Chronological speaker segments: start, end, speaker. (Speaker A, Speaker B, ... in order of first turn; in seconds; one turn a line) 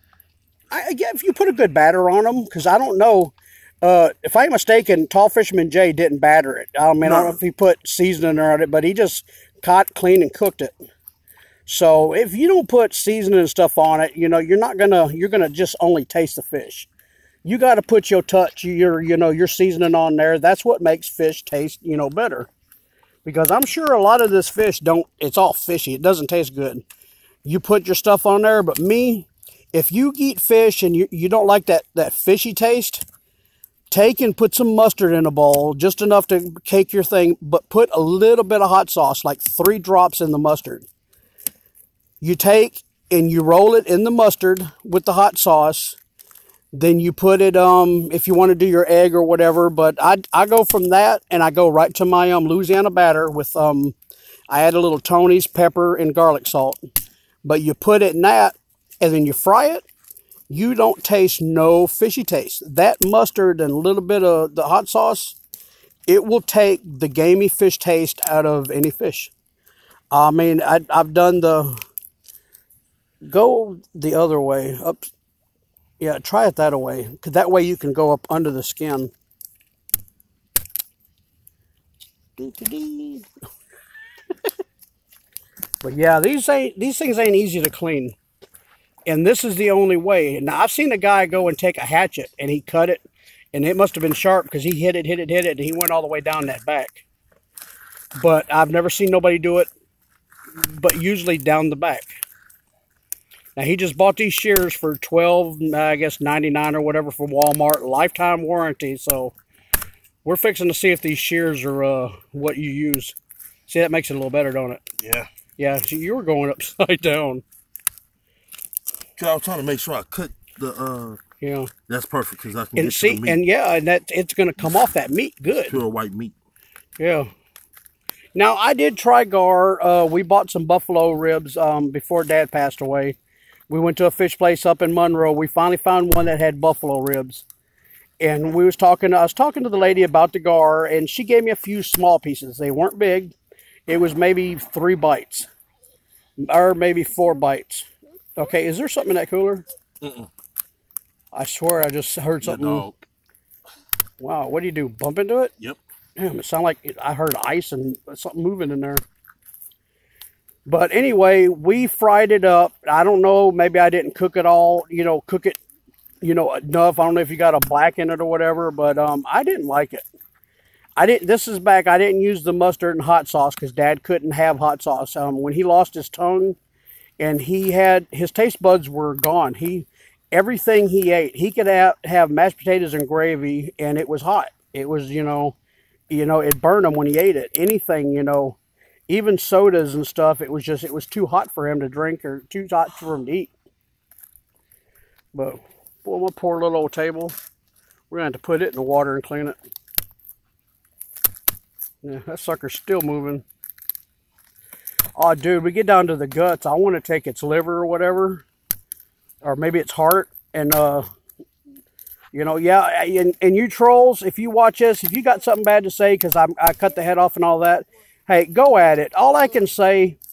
Speaker A: 0.7-10.7
Speaker B: 7.0-7.4
Speaker A: 11.7-16.9
Speaker A: 17.4-22.5
Speaker A: 23.2-26.8
Speaker A: 27.4-33.0
Speaker A: 33.9-40.9
Speaker A: 42.2-46.0
Speaker A: 46.7-53.9
Speaker A: 54.5-56.8
Speaker A: 57.4-59.8
Speaker A: 60.5-65.4
Speaker A: 66.1-69.3
Speaker A: 70.1-71.8
Speaker A: 73.2-75.0
Speaker A: 76.0-79.1
Speaker A: 82.4-83.3
Speaker A: 85.8-88.2
Speaker A: 89.0-97.0
Speaker A: 98.2-99.7
Speaker A: 100.5-102.1
Speaker A: 103.6-109.3
Speaker A: 110.2-113.1
Speaker A: 113.7-114.8
Speaker B: 115.0-115.3
Speaker A: 115.6-117.4
Speaker B: 119.2-121.2
Speaker A: 121.4-121.7
Speaker B: 121.9-123.4
Speaker A: 122.8-125.8
Speaker B: 125.7-126.3
Speaker A: 127.0-127.3
Speaker A: 128.3-133.2
Speaker A: 133.7-137.4
Speaker A: 138.2-143.3
Speaker A: 143.9-145.5
Speaker A: 146.4-149.6
Speaker B: 150.0-150.3
Speaker A: 151.3-152.9
Speaker B: 152.4-153.0
Speaker A: 154.2-155.5
Speaker A: 156.2-159.0
Speaker A: 160.7-165.6
Speaker A: 166.2-170.0
Speaker A: 171.0-176.6
Speaker A: 177.2-185.6
Speaker A: 186.1-188.6
Speaker A: 189.1-193.5
Speaker A: 195.3-197.3
Speaker A: 198.1-199.6
Speaker A: 202.0-203.4
Speaker A: 205.2-208.4
Speaker A: 209.4-211.1
Speaker A: 212.3-220.2